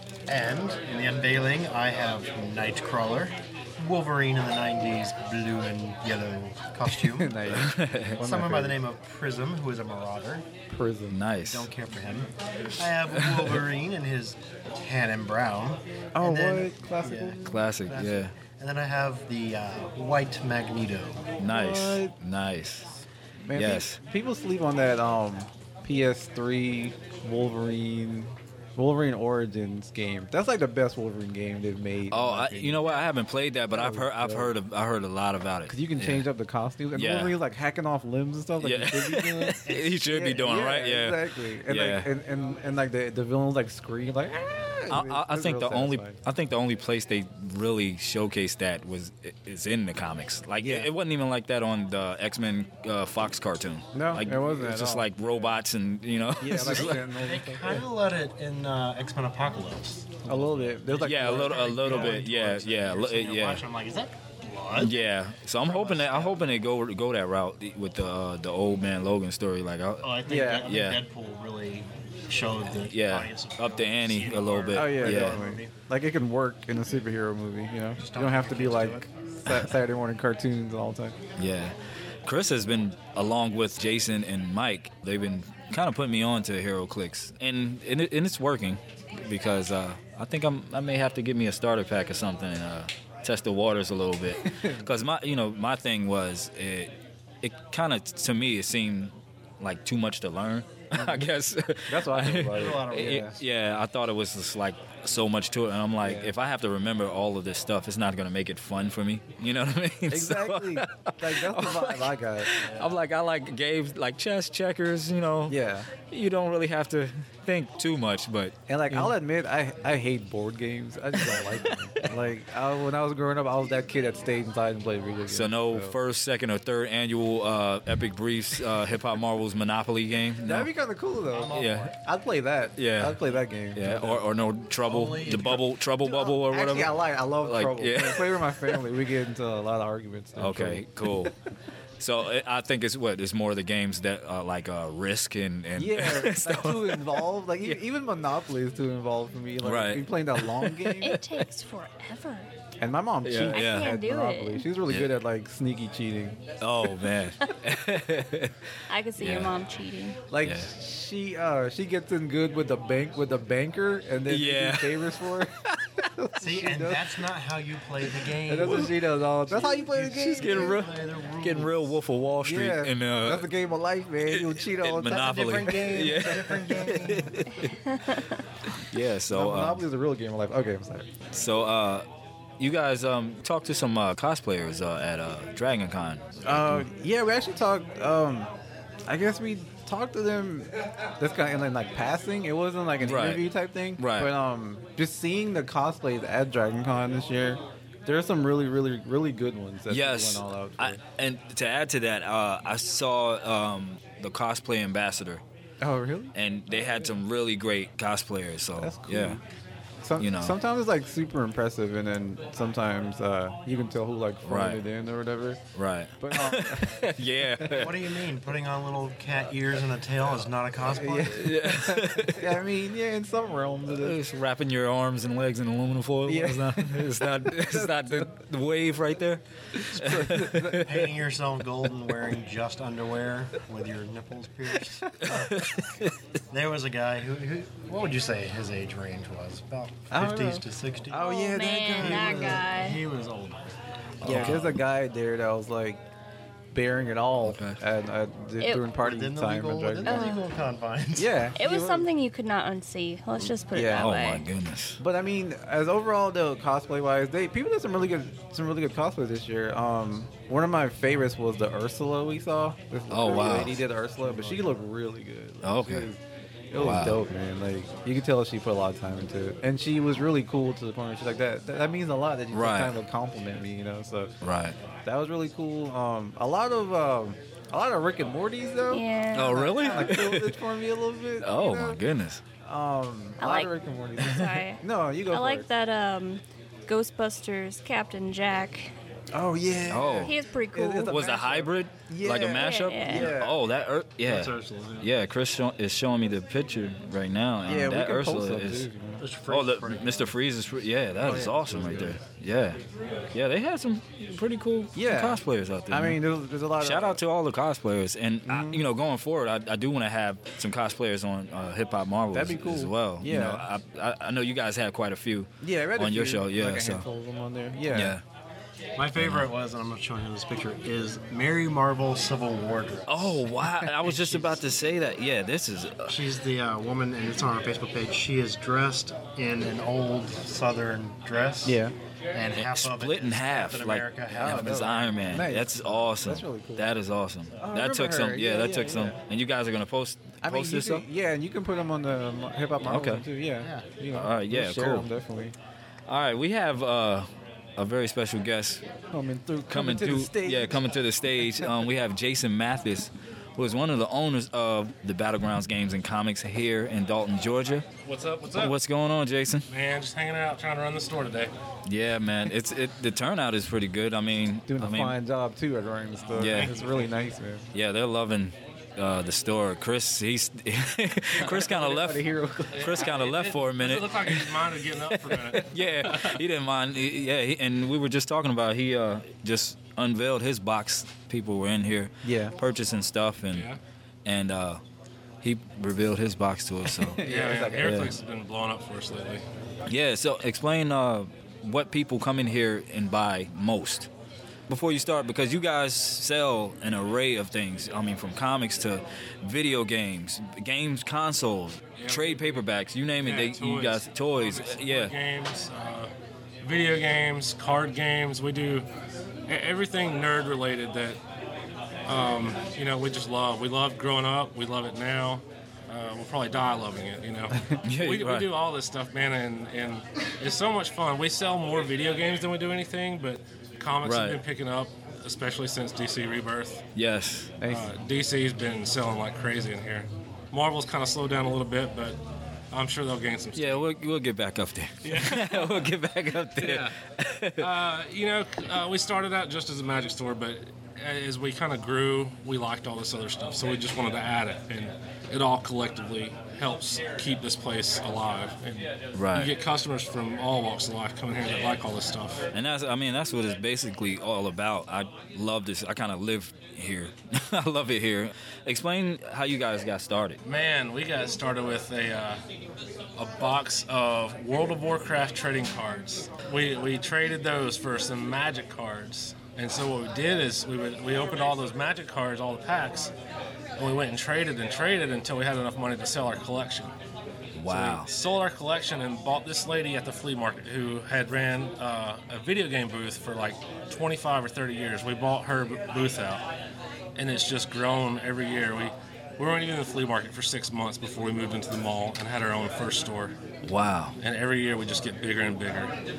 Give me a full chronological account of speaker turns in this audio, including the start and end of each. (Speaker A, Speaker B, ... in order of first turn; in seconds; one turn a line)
Speaker A: 0.3-7.4
Speaker B: 7.2-8.8
Speaker C: 7.5-8.2
Speaker A: 8.2-10.5
Speaker B: 10.7-11.2
Speaker C: 11.1-11.7
Speaker A: 11.4-21.4
Speaker C: 13.2-13.6
Speaker B: 16.1-17.6
Speaker C: 17.4-18.3
Speaker C: 21.4-23.0
Speaker B: 21.5-22.1
Speaker B: 23.5-32.9
Speaker C: 23.6-24.0
Speaker C: 32.1-36.3
Speaker B: 33.7-34.5
Speaker B: 35.7-46.2
Speaker C: 37.0-37.4
Speaker C: 38.6-42.1
Speaker A: 39.7-40.7
Speaker C: 44.9-57.1
Speaker B: 50.6-50.9
Speaker B: 53.9-55.1
Speaker B: 56.4-57.9
Speaker A: 56.7-64.9
Speaker B: 60.2-62.2
Speaker C: 61.0-63.6
Speaker C: 64.8-71.0
Speaker A: 65.6-66.5
Speaker A: 70.0-75.7
Speaker B: 70.3-70.7
Speaker C: 72.8-75.4
Speaker B: 74.7-81.2
Speaker A: 78.0-79.1
Speaker C: 81.4-81.8
Speaker C: 82.3-119.1
Speaker B: 94.5-94.9
Speaker B: 100.9-101.2
Speaker B: 101.9-103.4
Speaker A: 102.4-103.2
Speaker B: 106.0-106.3
Speaker B: 110.1-112.5
Speaker A: 112.6-113.0
Speaker B: 115.5-115.9
Speaker B: 118.7-126.0
Speaker C: 121.1-122.1
Speaker C: 125.3-130.7
Speaker B: 130.4-134.2
Speaker A: 131.3-131.9
Speaker C: 131.5-131.9
Speaker C: 132.8-133.2
Speaker C: 133.7-138.8
Speaker A: 134.9-135.7
Speaker B: 136.0-141.3
Speaker C: 140.4-141.3
Speaker C: 142.0-147.8
Speaker B: 145.8-151.2
Speaker C: 149.6-151.1
Speaker D: 151.0-152.5
Speaker B: 152.8-156.5
Speaker C: 153.2-153.9
Speaker D: 153.5-154.7
Speaker C: 156.6-158.6
Speaker D: 158.9-160.2
Speaker C: 159.2-159.6
Speaker B: 160.3-167.2
Speaker C: 160.4-160.7
Speaker C: 164.3-165.1
Speaker A: 166.4-168.9
Speaker B: 168.5-170.8
Speaker A: 169.5-172.0
Speaker C: 170.4-173.5
Speaker B: 172.4-177.4
Speaker C: 174.2-177.8
Speaker A: 175.1-177.4
Speaker C: 178.8-179.8
Speaker B: 179.3-181.1
Speaker C: 181.3-182.1
Speaker C: 182.6-186.8
Speaker B: 186.4-188.5
Speaker B: 189.1-201.0
Speaker C: 193.0-193.5
Speaker C: 194.0-194.3
Speaker C: 199.9-205.4
Speaker B: 205.8-206.3
Speaker C: 206.3-209.4
Speaker B: 208.8-209.4
Speaker B: 210.0-215.6
Speaker C: 210.2-210.6
Speaker C: 214.4-214.8
Speaker C: 215.7-218.0
Speaker B: 216.2-217.8
Speaker A: 217.7-221.5
Speaker B: 220.9-224.2
Speaker C: 221.3-222.5
Speaker C: 223.9-231.1
Speaker B: 226.3-228.3
Speaker B: 229.8-230.9
Speaker A: 230.7-235.9
Speaker C: 235.2-236.2
Speaker A: 236.5-241.3
Speaker B: 240.1-242.7
Speaker D: 241.2-243.0
Speaker A: 242.0-243.7
Speaker C: 244.2-244.8
Speaker B: 244.2-246.1
Speaker B: 246.7-250.4
Speaker C: 247.4-247.8
Speaker D: 248.6-248.8
Speaker A: 248.9-251.3
Speaker D: 250.1-250.5
Speaker B: 251.2-252.1
Speaker D: 251.6-254.4
Speaker B: 253.7-254.2
Speaker C: 253.8-255.0
Speaker B: 255.0-274.4
Speaker C: 263.1-263.8
Speaker A: 264.2-264.7
Speaker C: 265.6-266.1
Speaker C: 266.8-267.2
Speaker C: 272.5-272.9
Speaker C: 274.4-274.8
Speaker B: 275.1-282.0
Speaker D: 278.9-280.0
Speaker C: 279.3-280.6
Speaker C: 281.4-282.4
Speaker B: 282.6-285.7
Speaker D: 283.4-288.9
Speaker B: 289.3-293.6
Speaker C: 289.9-290.4
Speaker D: 290.2-291.5
Speaker C: 291.1-298.9
Speaker D: 292.5-293.3
Speaker A: 294.2-295.1
Speaker B: 297.6-299.3
Speaker A: 299.2-300.3
Speaker C: 299.5-302.8
Speaker B: 301.2-302.1
Speaker A: 301.2-302.1
Speaker C: 303.3-306.2
Speaker B: 304.9-307.2
Speaker C: 306.8-317.1
Speaker B: 308.4-308.8
Speaker B: 312.3-313.7
Speaker B: 315.6-318.2
Speaker C: 317.9-318.2
Speaker A: 319.0-324.6
Speaker C: 319.2-319.5
Speaker C: 323.1-326.2
Speaker A: 326.1-331.8
Speaker B: 331.6-331.9
Speaker A: 332.3-335.2
Speaker C: 332.5-341.1
Speaker B: 334.4-336.9
Speaker B: 337.6-339.2
Speaker B: 340.4-345.6
Speaker C: 342.8-343.3
Speaker A: 343.6-343.9
Speaker C: 344.1-345.1
Speaker C: 346.1-348.8
Speaker B: 349.1-350.9
Speaker C: 349.7-357.9
Speaker E: 358.0-358.8
Speaker C: 358.5-359.7
Speaker E: 359.7-361.5
Speaker C: 361.9-365.2
Speaker B: 364.7-367.7
Speaker E: 366.3-367.2
Speaker C: 366.4-366.8
Speaker C: 367.7-383.7
Speaker B: 371.4-373.1
Speaker E: 372.7-376.4
Speaker B: 382.2-382.6
Speaker E: 383.5-383.8
Speaker C: 384.2-384.8
Speaker C: 385.4-387.2
Speaker B: 386.9-388.1
Speaker E: 387.2-389.4
Speaker C: 387.8-388.1
Speaker C: 389.9-394.1
Speaker C: 394.7-405.1
Speaker E: 402.0-402.6
Speaker E: 403.2-406.1
Speaker E: 406.6-408.9
Speaker E: 409.5-411.2
Speaker E: 412.1-426.8
Speaker C: 417.8-418.5
Speaker C: 424.0-424.4
Speaker C: 426.9-427.6
Speaker B: 427.6-427.9
Speaker E: 427.6-432.2
Speaker E: 432.7-433.8
Speaker C: 433.6-437.7
Speaker E: 435.0-435.8
Speaker E: 436.6-436.9
Speaker E: 437.6-452.5
Speaker C: 449.1-449.5
Speaker C: 452.5-460.4
Speaker E: 460.4-462.4
Speaker E: 463.2-473.1
Speaker E: 473.8-476.9
Speaker C: 477.6-478.1
Speaker E: 477.7-486.5
Speaker E: 487.2-493.4
Speaker C: 493.6-494.2
Speaker E: 494.2-495.9